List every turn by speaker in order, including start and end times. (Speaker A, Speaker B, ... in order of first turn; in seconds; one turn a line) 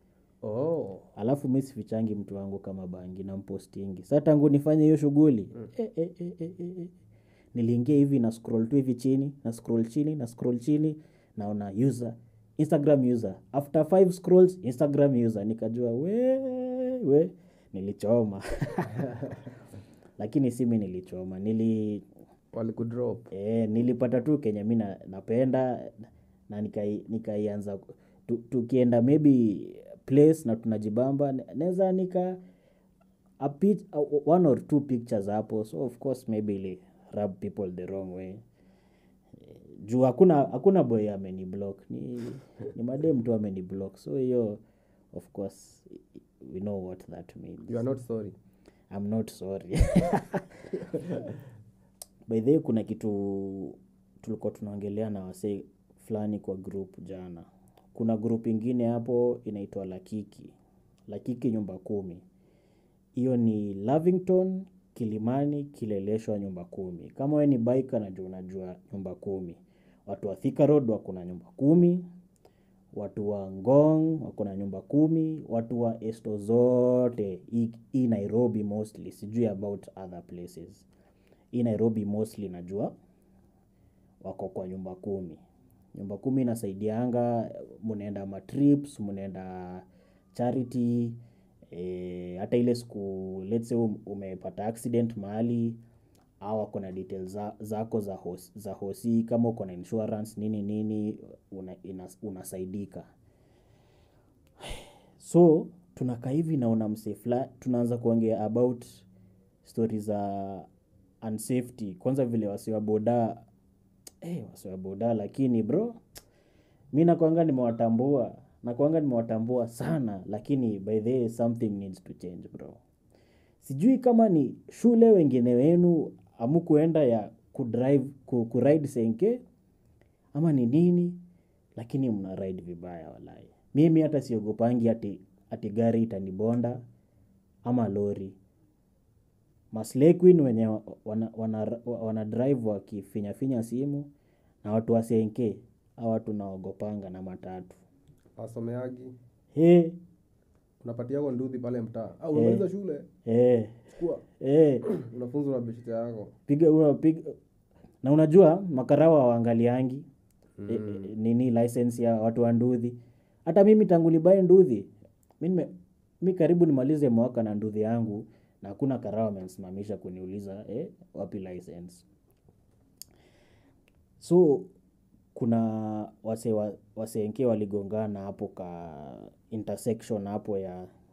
Speaker A: 0.4-1.1
Speaker B: 1.2-6.9
Speaker B: 7.5-19.3
Speaker B: 20.2-22.1
Speaker A: 22.5-23.3
Speaker B: 23.3-32.4
Speaker B: 33.4-38.4
Speaker B: 39.8-44.6
Speaker B: 45.1-47.9
Speaker A: 47.7-48.4
Speaker B: 48.9-50.7
Speaker B: 52.3-60.5
Speaker B: 61.1-62.2
Speaker B: 63.1-72.1
Speaker B: 72.9-80.9
Speaker B: 81.5-82.9
Speaker B: 84.2-85.4
Speaker B: 86.0-91.2
Speaker B: 91.7-95.8
Speaker B: 96.4-103.1
Speaker B: 104.6-109.1
Speaker B: 109.6-110.7
Speaker B: 111.2-113.5
Speaker B: 114.2-116.0
Speaker B: 116.9-122.8
Speaker B: 123.6-129.4
Speaker B: 130.3-131.2
Speaker B: 131.8-136.8
Speaker B: 137.7-138.4
Speaker B: 139.7-144.1
Speaker B: 144.6-147.8
Speaker A: 148.4-149.2
Speaker B: 149.5-150.0
Speaker A: 150.8-153.1
Speaker B: 152.3-152.7
Speaker B: 153.2-153.9
Speaker A: 154.0-154.2
Speaker B: 154.4-154.9
Speaker A: 154.9-156.3
Speaker B: 156.5-157.4
Speaker B: 158.0-160.1
Speaker A: 160.6-161.1
Speaker B: 160.7-164.9
Speaker B: 165.4-172.1
Speaker B: 174.2-174.7
Speaker B: 175.3-180.9